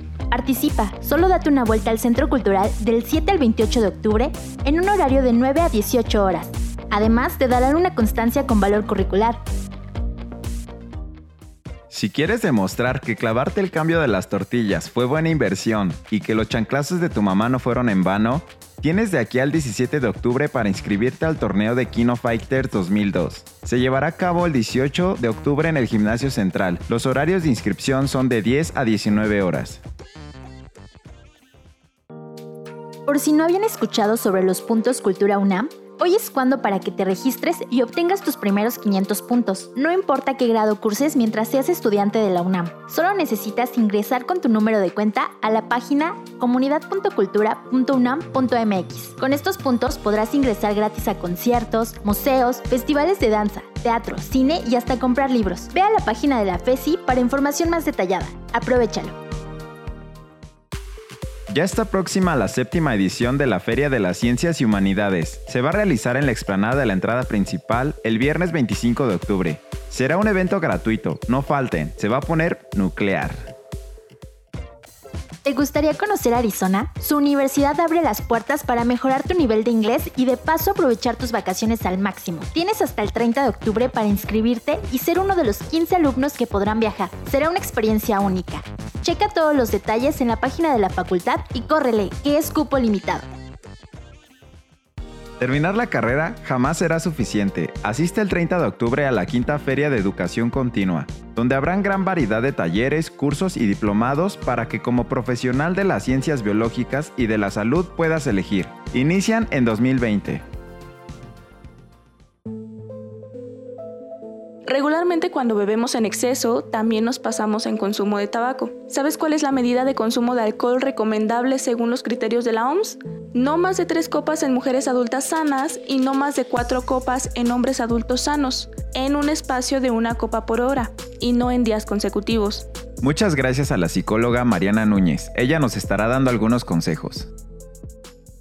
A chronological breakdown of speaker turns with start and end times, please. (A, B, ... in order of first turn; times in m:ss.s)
0:00.3-0:09.4 A
0:11.9-0:29.8 B
0:33.1-0:59.2 A
1:01.5-1:13.4 B
1:15.4-1:33.3 A
1:35.4-1:50.4 B
1:54.6-2:12.6 C
2:13.0-2:17.3 B